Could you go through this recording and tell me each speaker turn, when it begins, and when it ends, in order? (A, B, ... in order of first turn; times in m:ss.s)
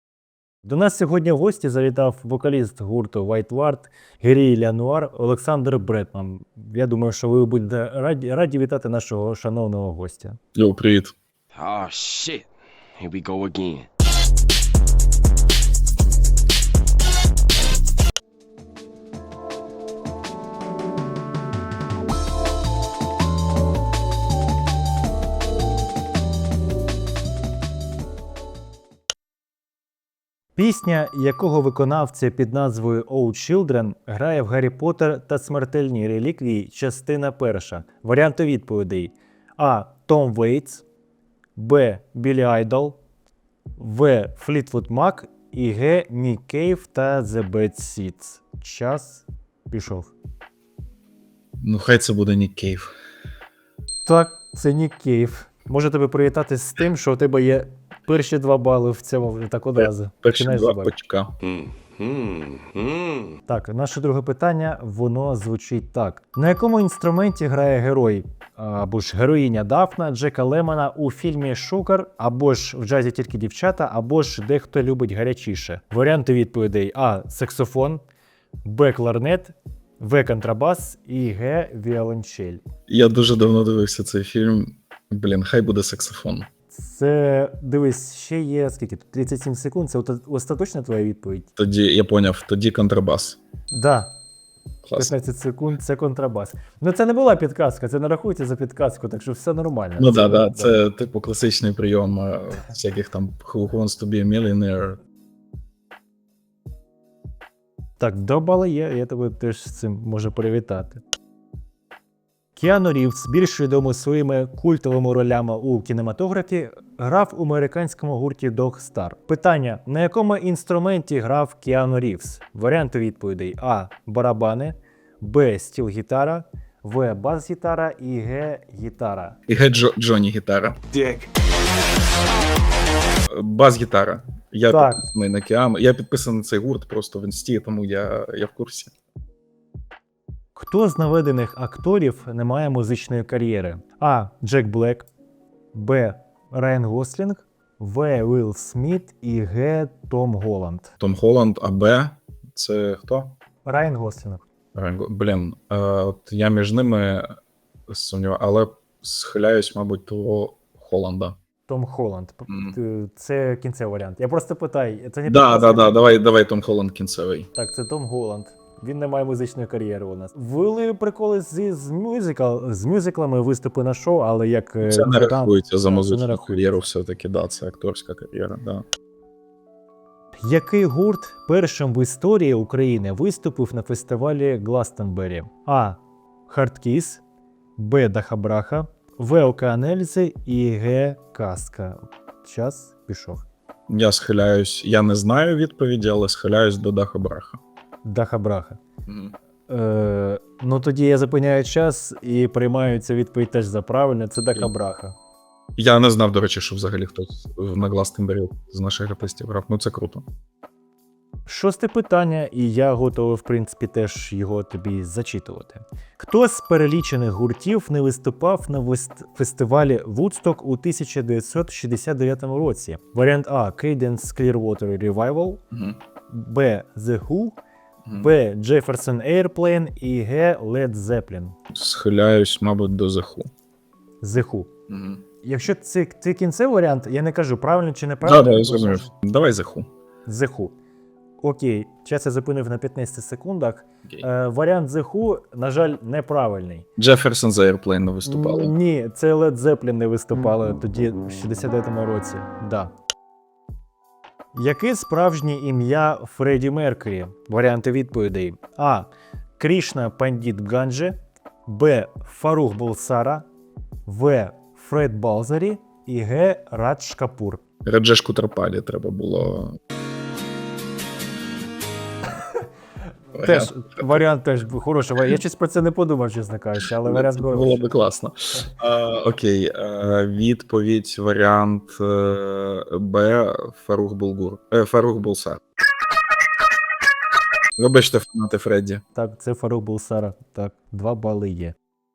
0:00.6-0:10.4 A
0:10.5-0:11.1 B
0:11.5-0:12.4 C
0:13.0-0:13.9 C
0:30.6-0:40.8 A
0:41.5-0:43.0 A
0:43.8-0:50.1 A
0:51.6-0:52.9 B
0:54.0-1:00.9 A
0:59.8-1:01.3 B
1:01.4-1:03.3 C
1:03.5-1:18.0 A
1:18.6-1:22.6 A
1:22.9-1:26.5 B
1:26.7-1:31.5 A
1:31.6-1:33.4 B
1:33.7-1:34.1 A
1:34.8-1:35.1 B
1:35.0-1:40.8 A
1:40.0-1:45.0 B
1:48.0-1:51.0 A
1:52.6-2:09.4 A
2:09.5-2:10.8 B
2:13.3-2:18.9 B
2:14.7-2:15.1 A
2:20.5-2:25.1 A
2:25.7-2:30.9 A
2:31.0-2:33.4 B
2:33.6-2:34.4 A
2:34.7-2:37.3 B
2:37.9-2:41.4 B
2:41.7-2:46.0 A
2:42.5-2:42.8 B
2:45.2-2:47.5 B
2:47.5-2:56.8 A
2:54.8-2:58.8 B
3:00.4-3:07.2 A
3:07.8-3:13.4 A
3:13.9-3:17.6 B
3:18.0-3:18.8 A
3:19.0-3:19.4 B
3:19.7-3:25.2 A
3:25.8-3:30.2 B
3:31.4-3:45.6 A
3:45.7-3:46.0 B
3:46.3-3:47.6 A
3:48.0-3:48.3 B
3:48.2-3:51.6 A
3:51.7-3:53.5 B
3:54.2-3:54.7 A
3:54.9-3:55.2 B
3:55.4-3:59.1 A
3:58.2-3:59.9 B
4:00.2-4:00.7 A
4:01.4-4:06.8 A
4:07.0-4:08.7 B
4:08.2-4:12.9 A
4:14.5-4:21.1 A
4:21.6-4:23.5 A
4:24.0-4:27.6 A
4:27.8-4:29.8 B
4:33.3-4:34.2 B
4:33.4-4:37.7 A
4:37.0-4:45.6 B
4:47.8-4:49.0 B
4:49.1-4:51.7 A